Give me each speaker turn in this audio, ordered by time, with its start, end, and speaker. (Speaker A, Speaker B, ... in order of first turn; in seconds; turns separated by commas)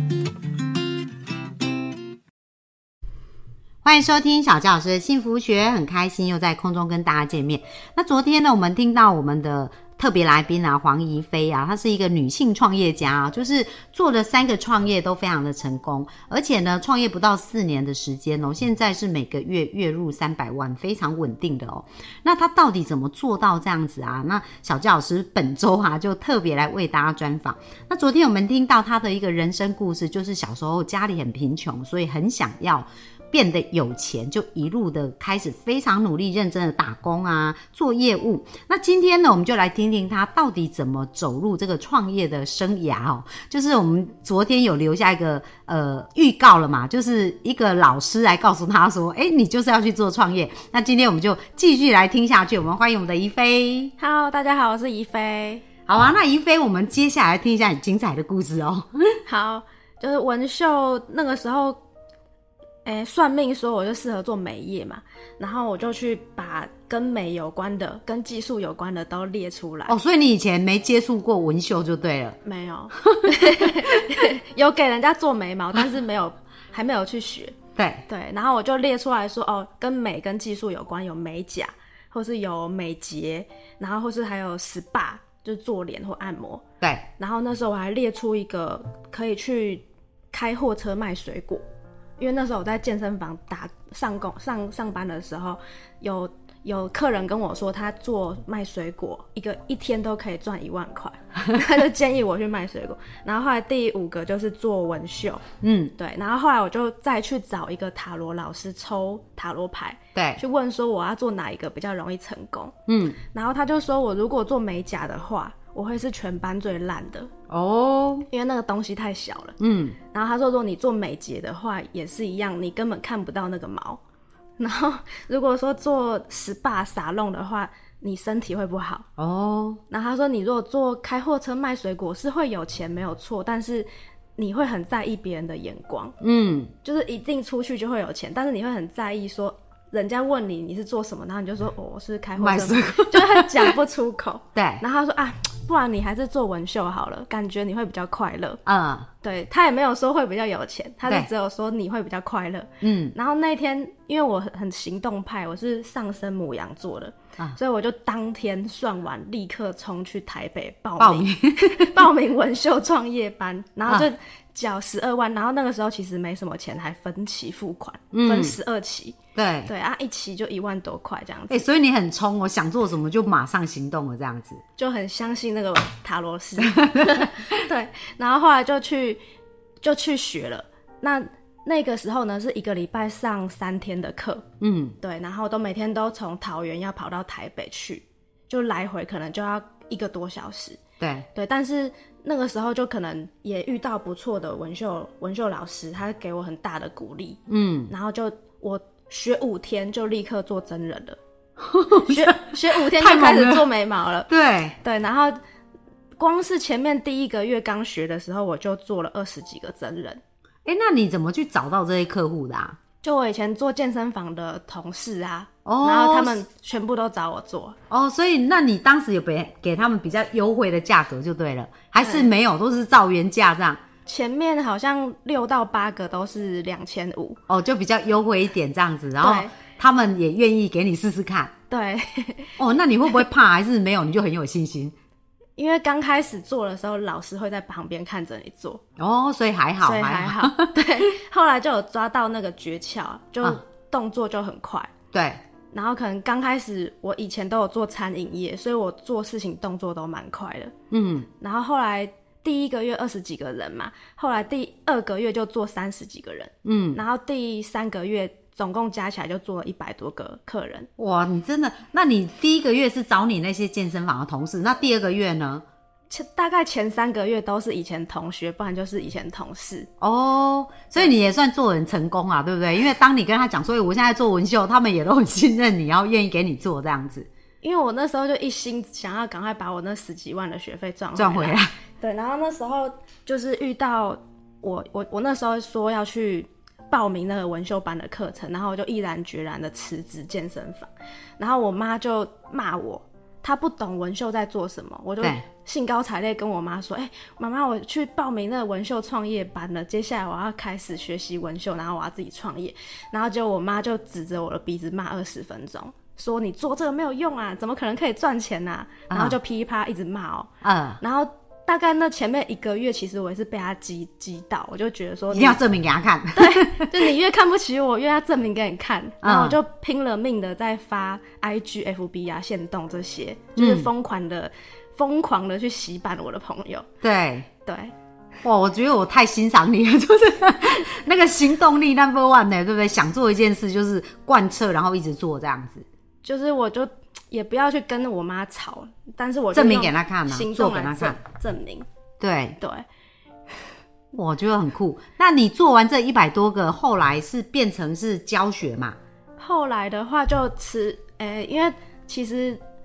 Speaker A: 3.8-53.9, Speaker B: 54.0-55.6, Speaker A: 55.9-59.2, Speaker B: 59.3-61.8, Speaker B: 62.8-69.9, Speaker A: 69.9-72.4, Speaker B: 72.4-77.5, Speaker A: 73.0-73.3, Speaker A: 77.8-78.0, Speaker B: 78.1-86.6, Speaker A: 86.8-87.0, Speaker B: 87.2-91.6, Speaker B: 92.2-105.4, Speaker A: 105.6-105.9, Speaker B: 106.0-112.7, Speaker A: 110.1-110.4, Speaker A: 112.9-113.2, Speaker B: 113.3-117.3, Speaker A: 117.5-118.3, Speaker B: 118.3-119.5, Speaker A: 119.6-120.0, Speaker B: 120.1-124.0, Speaker B: 124.6-129.1, Speaker A: 129.2-129.8, Speaker B: 129.9-136.2, Speaker A: 136.2-136.7, Speaker B: 136.8-148.6, Speaker A: 142.4-143.7, Speaker A: 144.5-144.8, Speaker A: 148.6-149.1, Speaker B: 149.2-171.6, Speaker A: 152.8-153.1, Speaker A: 161.0-161.9, Speaker A: 168.1-168.6, Speaker A: 169.3-169.7, Speaker A: 171.5-174.6, Speaker B: 174.8-179.2, Speaker A: 176.8-177.4, Speaker B: 179.8-184.4, Speaker A: 184.6-184.9, Speaker B: 185.0-190.8, Speaker A: 191.0-191.3, Speaker B: 191.3-201.2, Speaker A: 197.5-197.9, Speaker A: 201.6-203.7, Speaker B: 201.9-204.3, Speaker A: 204.3-204.8, Speaker B: 204.8-205.3, Speaker B: 206.2-210.2, Speaker A: 210.6-212.8, Speaker B: 213.0-217.8, Speaker A: 215.6-216.4, Speaker A: 217.9-223.8, Speaker B: 222.0-222.3, Speaker B: 224.1-227.4, Speaker A: 227.5-231.5, Speaker B: 229.2-229.5, Speaker B: 231.7-232.5, Speaker A: 232.6-234.9, Speaker B: 235.6-238.8, Speaker A: 239.0-240.7, Speaker B: 239.8-244.9, Speaker A: 245.1-245.4, Speaker B: 245.7-250.7, Speaker A: 250.9-251.3, Speaker B: 251.4-260.9, Speaker A: 256.6-257.0, Speaker A: 261.0-265.6, Speaker B: 266.1-269.9, Speaker A: 270.0-277.3, Speaker B: 277.6-315.6, Speaker A: 281.1-281.7, Speaker A: 309.1-309.4, Speaker A: 310.6-311.0, Speaker A: 315.3-316.9, Speaker B: 316.3-326.9, Speaker A: 319.2-319.6, Speaker A: 323.6-323.9, Speaker A: 327.0-327.5, Speaker B: 327.6-327.9, Speaker A: 328.4-335.9, Speaker B: 336.2-341.9, Speaker A: 339.5-341.2, Speaker A: 342.2-342.6, Speaker B: 342.6-342.9, Speaker A: 344.1-349.0, Speaker B: 349.4-352.6